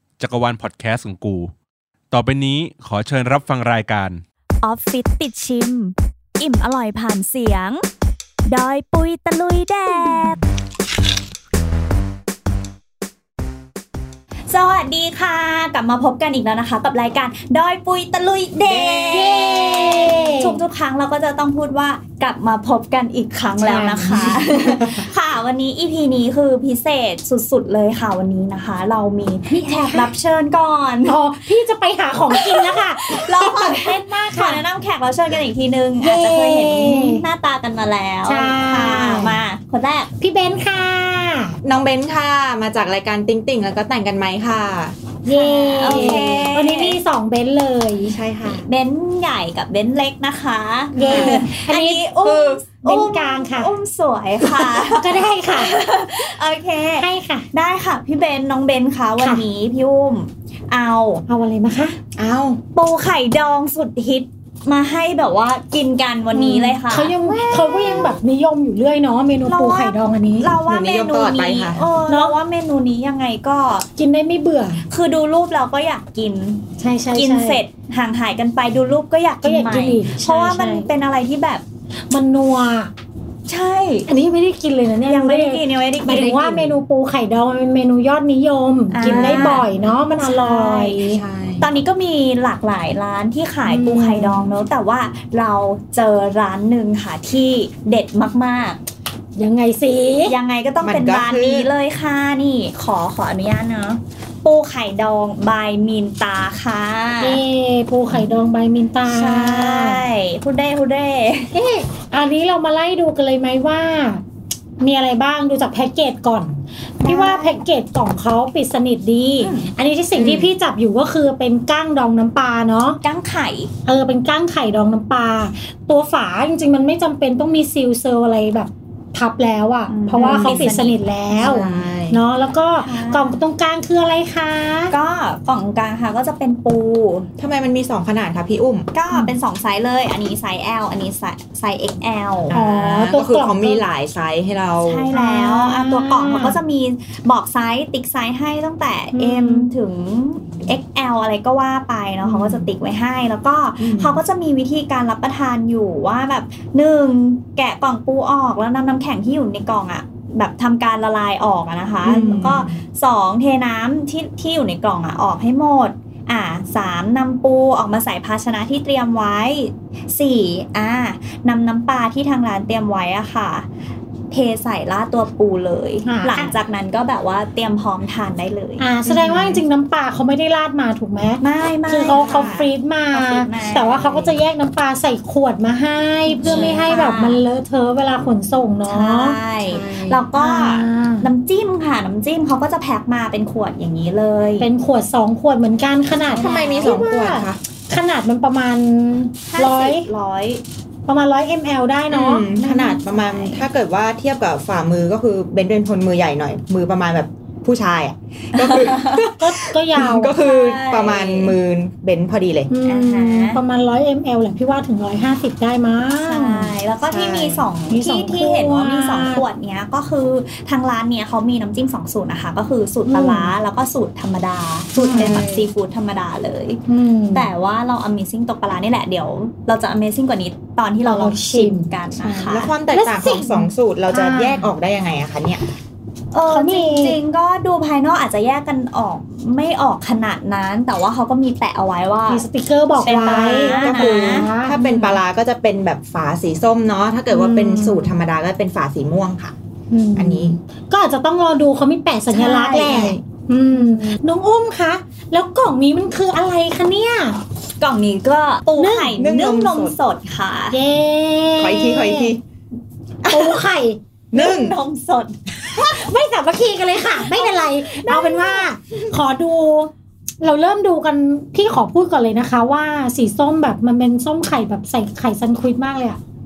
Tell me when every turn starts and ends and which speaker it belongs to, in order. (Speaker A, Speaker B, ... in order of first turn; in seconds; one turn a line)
Speaker A: 0.2-1.5
Speaker A: 2.1-4.2
Speaker B: 4.6-7.8
Speaker B: 8.5-10.4
Speaker B: 14.5-31.2
Speaker C: 18.6-19.3
Speaker D: 19.1-20.6
Speaker D: 23.6-24.4
Speaker D: 29.5-30.1
Speaker D: 31.0-34.6
Speaker B: 32.3-40.1
Speaker D: 36.0-37.2
Speaker D: 38.3-39.3
Speaker D: 40.2-41.6
Speaker C: 41.6-45.0
Speaker D: 45.2-48.1
Speaker B: 45.3-47.0
Speaker C: 45.8-46.5
Speaker C: 48.0-48.7
Speaker B: 48.5-61.2
Speaker D: 50.9-52.0
Speaker C: 51.0-51.4
Speaker C: 52.2-52.6
Speaker D: 52.8-53.7
Speaker D: 54.5-55.7
Speaker D: 57.0-57.5
Speaker D: 61.3-62.0
Speaker C: 62.1-62.6
Speaker B: 62.7-68.2
Speaker D: 66.3-70.5
Speaker B: 69.5-73.9
Speaker C: 70.6-71.9
Speaker D: 72.1-72.3
Speaker D: 74.0-74.8
Speaker B: 74.9-81.6
Speaker D: 76.8-77.6
Speaker D: 79.4-80.9
Speaker D: 82.1-82.9
Speaker B: 83.5-84.1
Speaker D: 84.1-91.2
Speaker B: 85.1-86.5
Speaker C: 86.1-86.8
Speaker B: 88.9-89.7
Speaker C: 89.0-89.7
Speaker B: 90.2-98.8
Speaker C: 91.1-91.7
Speaker D: 93.7-94.5
Speaker D: 99.4-100.3
Speaker B: 100.2-107.4
Speaker C: 100.8-101.7
Speaker D: 107.2-110.0
Speaker B: 109.1-111.5
Speaker D: 111.5-114.2
Speaker D: 114.8-123.0
Speaker B: 117.0-117.6
Speaker B: 119.4-119.7
Speaker C: 120.1-120.5
Speaker B: 123.0-123.7
Speaker D: 123.8-134.9
Speaker B: 129.9-130.9
Speaker C: 130.1-130.8
Speaker C: 131.3-132.2
Speaker B: 132.8-133.4
Speaker B: 134.9-137.3
Speaker C: 137.4-138.9
Speaker B: 138.9-142.5
Speaker C: 142.4-145.1
Speaker D: 142.5-143.8
Speaker B: 144.8-173.7
Speaker D: 145.1-146.6
Speaker D: 149.1-149.7
Speaker C: 152.2-152.7
Speaker C: 153.8-154.2
Speaker C: 162.0-162.8
Speaker B: 174.3-178.9
Speaker D: 176.0-176.5
Speaker D: 178.8-191.3
Speaker C: 179.0-179.6
Speaker B: 181.4-184.3
Speaker C: 182.1-182.6
Speaker B: 186.4-187.4
Speaker C: 186.4-186.9
Speaker B: 188.9-194.7
Speaker C: 189.7-190.1
Speaker D: 194.6-200.1
Speaker B: 196.3-197.1
Speaker C: 196.3-197.6
Speaker B: 199.5-200.6
Speaker D: 201.1-202.4
Speaker C: 202.1-212.7
Speaker B: 202.5-203.6
Speaker B: 208.6-209.3
Speaker D: 209.3-210.3
Speaker B: 210.3-211.6
Speaker D: 212.7-216.7
Speaker B: 212.8-213.6
Speaker B: 216.2-226.8
Speaker C: 217.1-217.6
Speaker D: 217.9-219.4
Speaker D: 223.1-223.5
Speaker D: 225.0-225.4
Speaker C: 225.1-225.7
Speaker D: 226.9-227.5
Speaker B: 227.3-232.7
Speaker D: 231.0-231.9
Speaker C: 232.2-235.6
Speaker D: 232.9-234.7
Speaker B: 236.3-242.4
Speaker D: 236.5-237.2
Speaker D: 242.3-244.7
Speaker B: 243.0-245.2
Speaker C: 243.1-249.5
Speaker D: 247.3-248.1
Speaker D: 249.9-257.4
Speaker C: 250.1-250.6
Speaker B: 252.3-253.1
Speaker C: 252.7-253.2
Speaker B: 253.7-254.2
Speaker B: 257.8-260.8
Speaker D: 258.8-259.2
Speaker C: 259.2-259.9
Speaker D: 260.7-262.3
Speaker C: 261.6-262.4
Speaker B: 263.2-263.6
Speaker D: 263.2-264.0
Speaker C: 264.3-264.8
Speaker B: 264.3-265.8
Speaker D: 265.7-276.2
Speaker B: 267.1-268.7